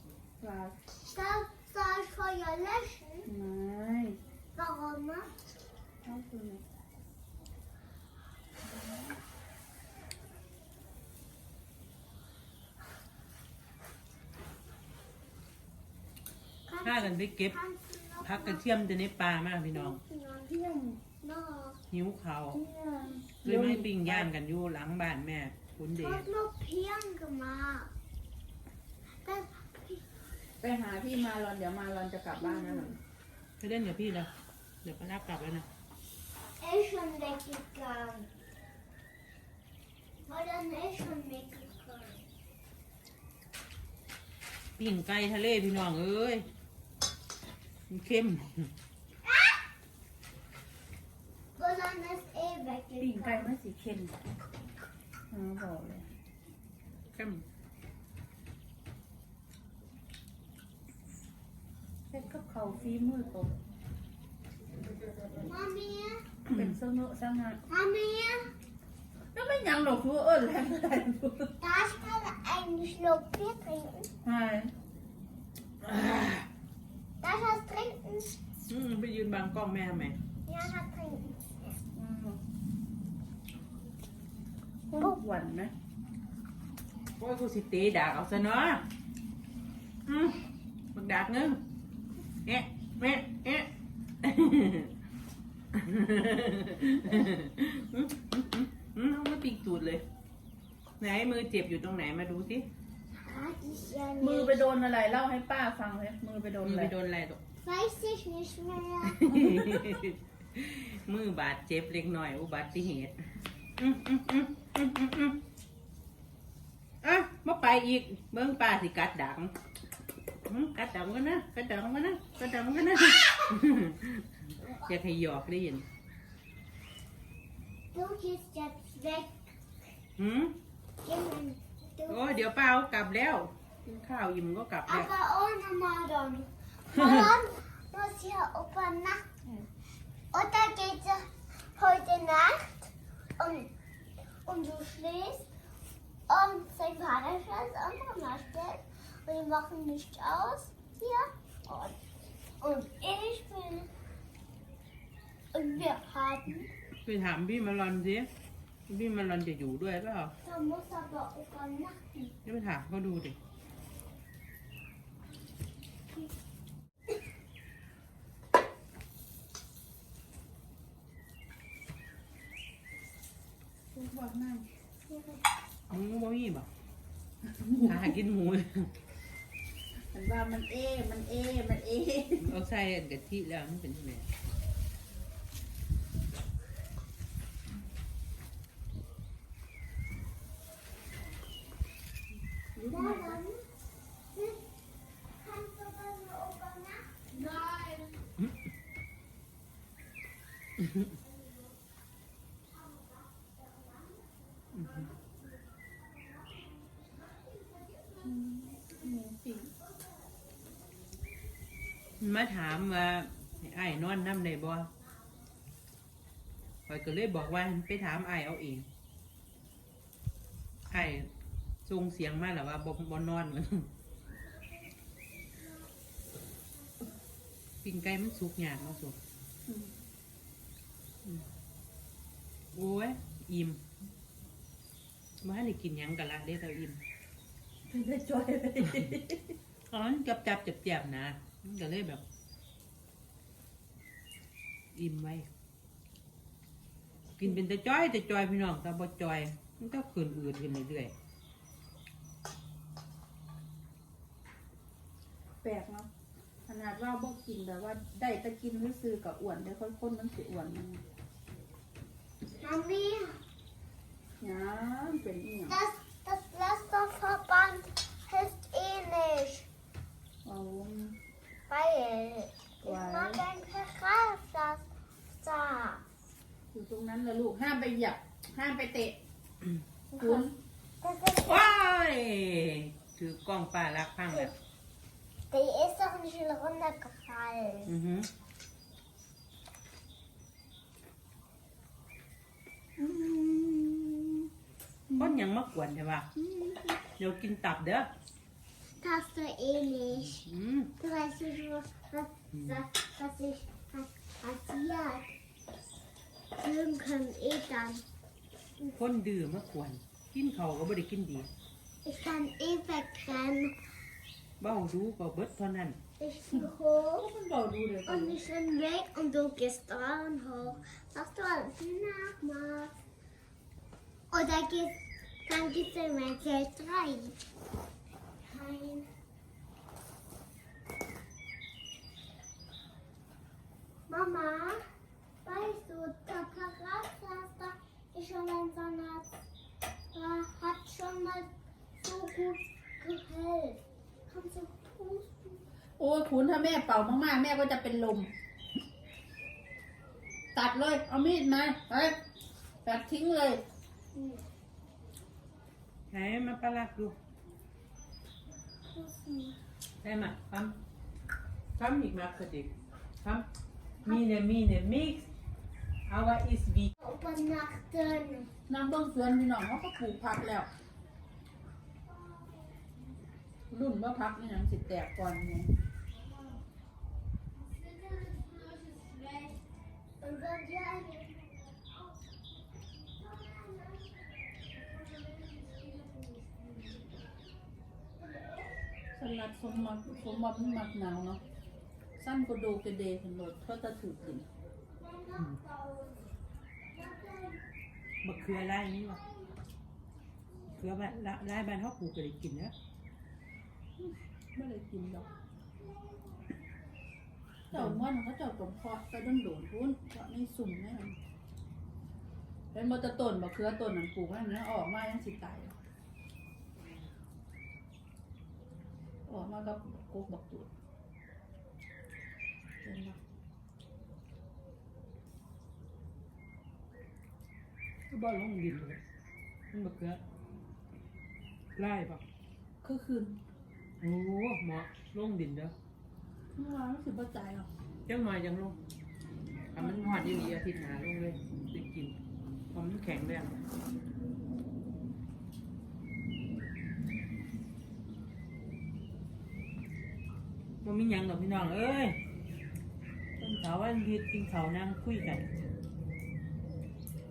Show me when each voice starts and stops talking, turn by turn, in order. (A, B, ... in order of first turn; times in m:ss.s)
0:00.4-0:00.8 A
0:01.1-0:03.3 B
0:03.2-0:04.2 A
0:04.5-0:05.3 B
0:06.0-0:06.6 A
0:08.6-0:09.1 A
0:16.6-0:18.6 B
0:16.8-0:17.6 C
0:18.2-0:20.0 C
0:19.7-0:21.8 B
0:20.5-0:21.0 A
0:21.9-0:22.6 C
0:22.5-0:24.3 A
0:23.4-0:26.2 C
0:26.0-0:27.9 B
0:29.2-0:30.0 B
0:30.6-0:32.9 A
0:32.4-0:33.0 B
0:33.6-0:34.3 C
0:34.8-0:35.7 C
0:36.6-0:38.3 B
0:40.2-0:42.2 B
0:44.8-0:46.4 C
0:47.9-0:48.7 C
0:49.2-0:49.6 B
0:51.6-0:53.5 B
0:53.0-0:54.1 A
0:55.3-0:56.0 A
0:57.1-0:57.4 C
1:02.1-1:03.5 A
1:05.4-1:06.2 B
1:06.5-1:07.6 A
1:07.7-1:08.5 B
1:09.3-1:11.5 A
1:11.6-1:14.1 B
1:14.2-1:14.7 A
1:15.8-1:16.4 C
1:17.2-1:18.4 B
1:18.7-1:20.2 C
1:20.4-1:21.8 B
1:21.9-1:22.4 A
1:24.9-1:25.7 A
1:27.2-1:28.8 C
1:30.1-1:30.4 C
1:30.9-1:31.6 C
1:32.4-1:33.7 C
1:34.2-1:34.9 C
1:35.7-1:40.0 C
1:41.0-1:42.7 C
1:43.2-1:44.6 B
1:44.2-1:46.9 A
1:46.6-1:47.4 C
1:47.6-1:49.8 B
1:49.0-1:53.2 C
1:53.8-1:55.4 C
1:57.0-1:59.5 C
2:00.5-2:05.8 C
2:07.9-2:09.5 B
2:10.2-2:10.5 C
2:11.0-2:12.3 B
2:12.1-2:15.1 C
2:14.8-2:19.6 B
2:16.9-2:17.3 C
2:20.3-2:23.7 B
2:24.4-2:25.5 B
2:26.3-2:32.0 B
2:32.6-2:33.9 B
2:35.5-2:36.7 B
2:37.0-2:38.3 C
2:38.9-2:40.3 C
2:40.4-2:42.3 B
2:42.4-2:43.4 C
2:53.9-2:54.7 A
2:55.0-2:55.4 B
2:55.9-2:56.7 C
2:57.5-2:58.0 A
2:57.8-2:58.9 C
3:00.1-3:02.5 A
3:02.4-3:04.3 C
3:12.7-3:13.4 A
3:12.9-3:13.6 B
3:14.3-3:14.6 B
3:15.4-3:17.2 B
3:17.5-3:18.0 A
3:22.7-3:24.2 B
3:24.7-3:25.1 C
3:28.2-3:29.7 A
3:32.2-3:34.9 C
3:36.9-3:38.9 C
3:40.9-3:41.3 C
3:41.8-3:43.9 C
3:47.8-3:49.2 C
3:49.7-3:49.9 A
3:52.7-3:53.8 C
3:55.4-3:57.0 C
3:57.9-3:59.6 A
3:59.9-4:02.2 C
4:04.9-4:05.5 C
4:07.4-4:11.1 C
4:15.6-4:16.1 A
4:16.7-4:21.0 A
4:22.6-4:23.4 B
4:24.4-4:25.8 A
4:25.7-4:29.7 B
4:30.4-4:31.2 A
4:31.7-4:34.8 B
4:32.8-4:33.4 A
4:35.4-4:36.0 B
4:36.7-4:39.2 A
4:40.1-4:41.7 B
4:40.2-4:40.5 A
4:41.4-4:44.5 C
4:45.5-4:47.9 B
4:47.8-4:48.3 C
4:53.0-4:54.3 A
4:55.1-4:55.4 A
4:55.2-4:56.3 C
4:56.4-4:57.0 B
4:57.2-4:58.1 C
4:59.0-5:00.4 B
5:00.1-5:00.9 C
5:01.0-5:05.3 B
5:02.5-5:02.8 C
5:06.6-5:08.0 B
5:08.8-5:11.5 C
5:12.0-5:13.7 B
5:14.6-5:16.0 C
5:16.2-5:17.3 B
5:17.2-5:18.4 A
5:18.0-5:22.9 B
5:24.3-5:27.4 B
5:28.4-5:29.1 B
5:34.1-5:34.8 B
5:35.4-5:39.2 B
5:40.1-5:41.5 B
5:42.0-5:45.6 B
5:46.0-5:48.3 A
5:50.5-5:52.2 A
5:52.8-5:53.6 A
5:54.1-5:54.4 B
5:56.1-5:57.2 C
5:58.8-5:59.6 B
6:00.0-6:00.7 C
6:01.8-6:03.4 C
6:04.0-6:05.3 C
6:06.1-6:06.9 C
6:07.0-6:08.5 B
6:08.7-6:10.7 A
6:12.3-6:12.5 B
6:13.7-6:15.7 A
6:17.6-6:19.6 B
6:20.2-6:21.6 B
6:23.2-6:24.2 B
6:24.8-6:26.9 B
6:28.2-6:28.7 B
6:29.1-6:31.4 A
6:32.2-6:34.4 A
6:35.0-6:36.3 B
6:36.9-6:37.6 B
6:38.2-6:39.2 C
6:38.6-6:39.5 B
6:40.7-6:42.7 C
6:44.0-6:45.3 A
6:45.8-6:46.5 B
6:47.7-6:48.0 C
6:47.7-6:51.2 A
6:52.7-6:55.8 A
6:59.3-7:00.7 A
7:02.8-7:03.2 A
7:08.1-7:09.0 C
7:09.7-7:10.2 C
7:11.7-7:12.2 C
7:12.8-7:13.4 A
7:14.0-7:15.7 C
7:16.6-7:17.7 A
7:18.1-7:18.8 C
7:19.7-7:22.2 C
7:19.8-7:20.5 A
7:22.7-7:23.5 C
7:30.8-7:32.2 C
7:33.4-7:35.4 C